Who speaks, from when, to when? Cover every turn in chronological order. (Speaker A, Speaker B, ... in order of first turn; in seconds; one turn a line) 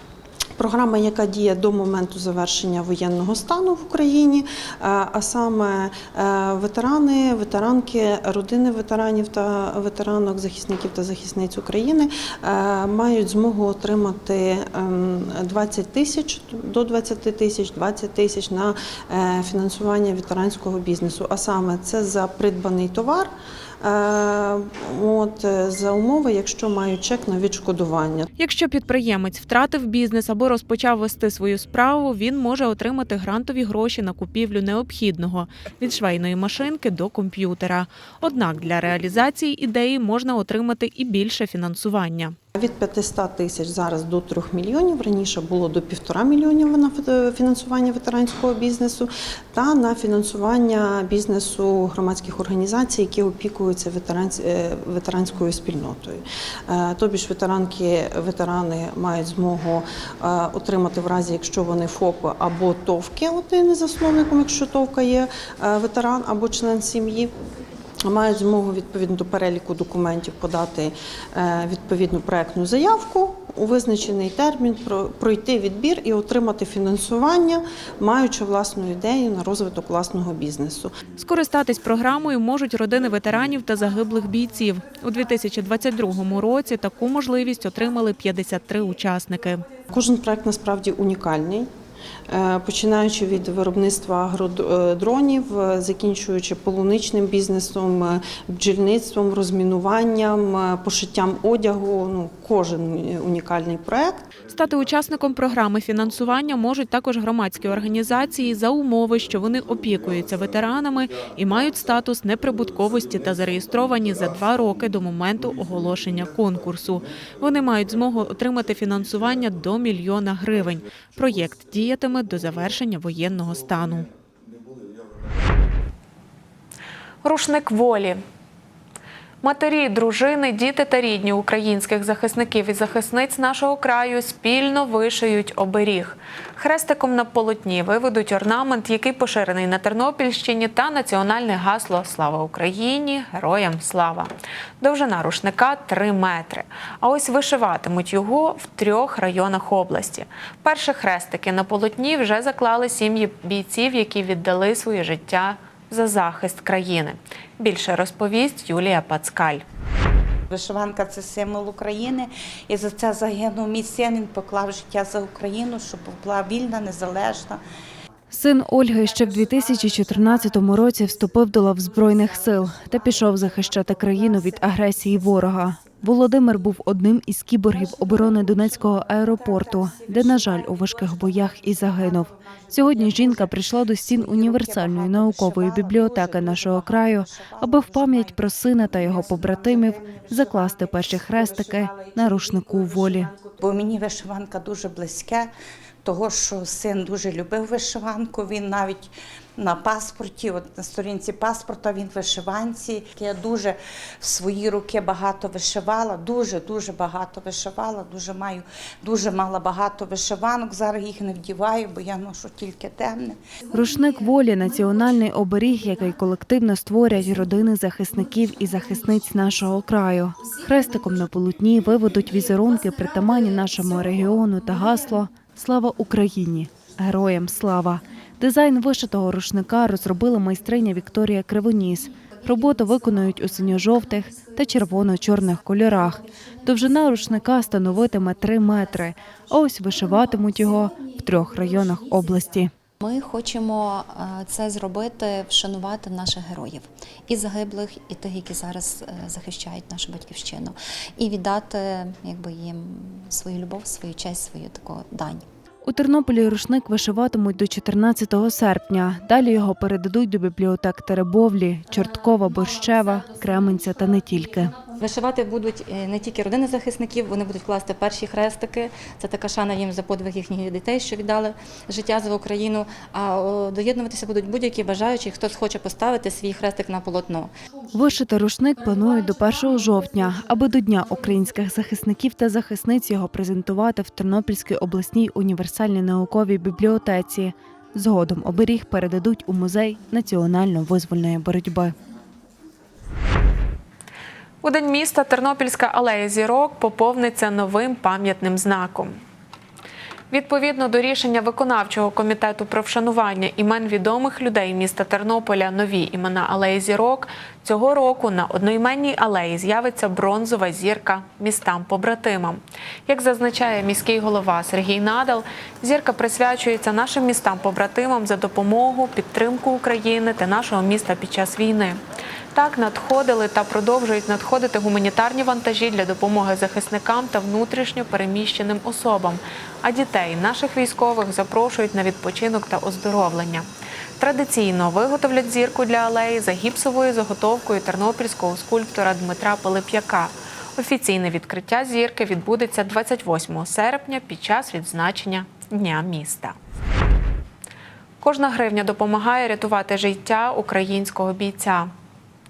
Speaker A: 0.6-28.3
Speaker B: 28.4-42.4
Speaker A: 42.6-67.3
Speaker A: 68.1-80.9
Speaker B: 81.2-89.7
Speaker A: 89.9-91.7
Speaker A: 92.3-104.3
Speaker B: 104.5-124.1
Speaker B: 127.2-128.2
Speaker B: 129.4-144.3
Speaker B: 144.8-159.6
Speaker C: 160.5-167.6
Speaker D: 168.3-193.3
Speaker C: 172.1-176.0
Speaker C: 177.7-195.5
Speaker C: 196.1-213.4
Speaker D: 213.7-242.7
Speaker E: 243.0-255.4
Speaker D: 255.8-264.8
Speaker F: 265.0-277.5
Speaker D: 277.9-291.9
Speaker B: 294.6-299.1
Speaker B: 300.3-322.0
Speaker B: 322.5-333.7
Speaker B: 334.2-346.6
Speaker B: 348.2-351.9